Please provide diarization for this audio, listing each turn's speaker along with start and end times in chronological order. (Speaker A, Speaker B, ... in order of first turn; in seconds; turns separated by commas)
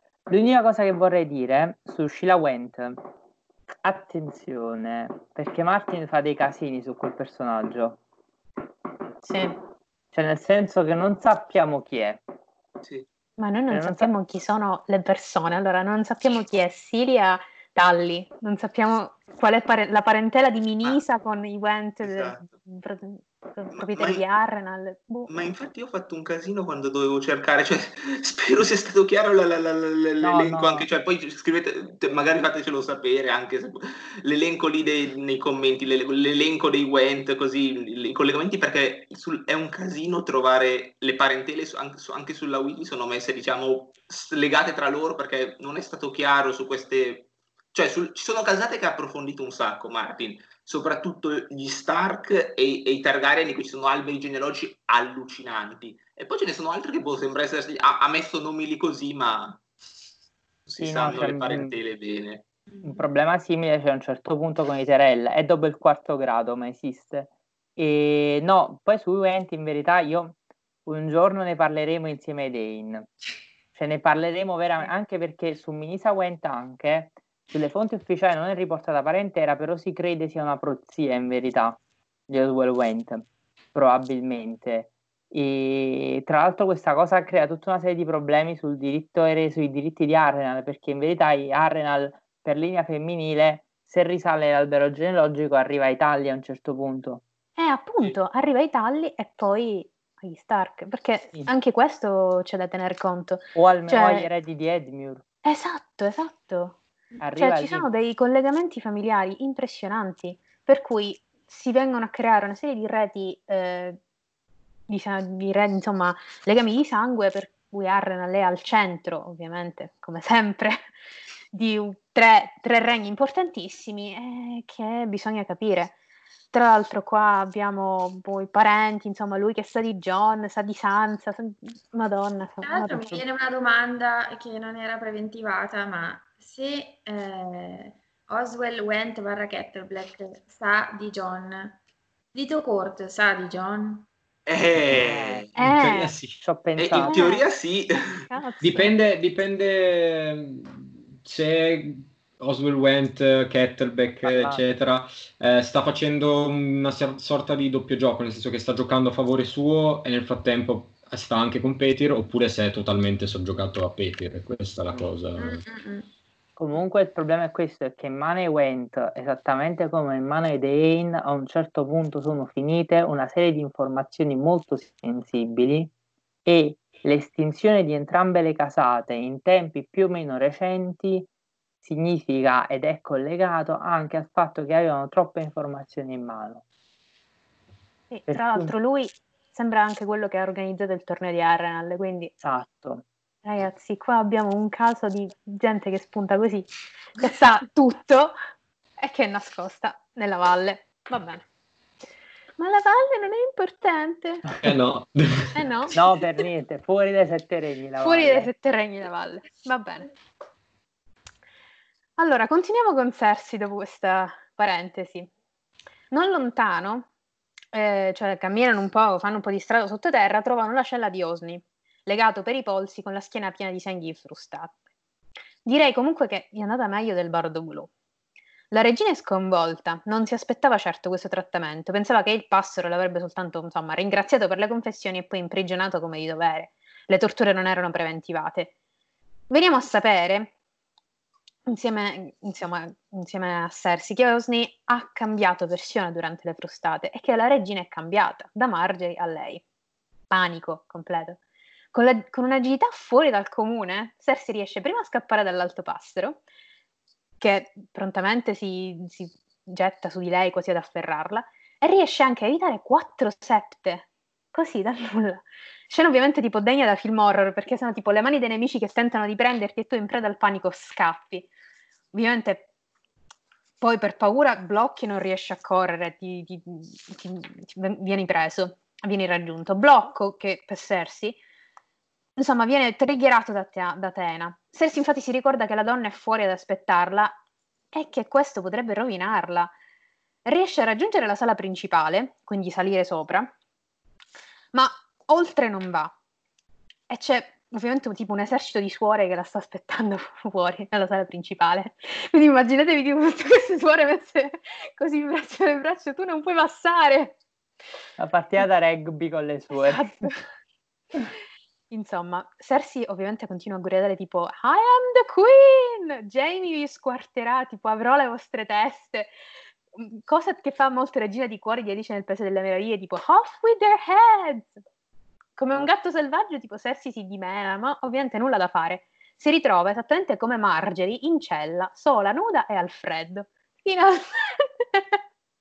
Speaker A: 0.3-3.0, Speaker A: 3.8-8.0, Speaker B: 9.3-9.6, Speaker A: 10.1-12.2, Speaker B: 13.4-25.5, Speaker A: 13.7-14.1, Speaker C: 22.0-22.5, Speaker C: 23.7-24.3, Speaker C: 25.3-59.6, Speaker A: 30.2-30.9, Speaker C: 60.7-62.5, Speaker A: 60.8-61.8, Speaker A: 62.8-73.1, Speaker A: 73.8-97.2, Speaker B: 97.6-104.3, Speaker A: 103.5-105.2, Speaker B: 105.4-106.8, Speaker A: 107.2-107.9, Speaker B: 107.4-114.0, Speaker B: 114.9-120.8, Speaker B: 121.5-126.0, Speaker B: 126.5-133.2, Speaker D: 132.6-141.8, Speaker D: 142.3-144.1, Speaker C: 144.5-145.5, Speaker E: 144.9-146.4, Speaker B: 145.6-146.2, Speaker A: 146.4-147.2, Speaker C: 146.8-148.3, Speaker B: 147.0-147.4, Speaker B: 148.3-148.9, Speaker E: 148.6-165.6, Speaker A: 154.2-154.6, Speaker D: 164.9-166.1, Speaker A: 166.6-175.9, Speaker A: 176.4-181.3, Speaker A: 181.8-186.6, Speaker B: 188.1-192.3, Speaker A: 188.3-188.7, Speaker A: 192.4-193.1, Speaker B: 193.4-198.4, Speaker B: 199.0-201.4, Speaker B: 202.6-204.4, Speaker E: 204.6-205.7, Speaker B: 205.5-205.9, Speaker A: 205.9-208.5, Speaker B: 208.0-210.1, Speaker B: 212.2-215.3, Speaker B: 216.1-217.1, Speaker B: 217.7-224.7, Speaker B: 225.7-227.9, Speaker B: 228.7-238.7, Speaker B: 239.5-240.5, Speaker B: 241.7-249.6, Speaker B: 250.3-251.4, Speaker B: 251.9-256.4, Speaker B: 257.4-271.5, Speaker B: 272.1-272.6, Speaker B: 273.8-281.4, Speaker B: 282.4-287.4, Speaker B: 287.9-289.7, Speaker B: 290.4-293.5, Speaker B: 294.7-296.1, Speaker B: 297.1-307.4, Speaker A: 308.2-310.3, Speaker B: 309.8-310.4, Speaker B: 311.9-319.3, Speaker B: 319.9-324.8, Speaker B: 325.6-335.2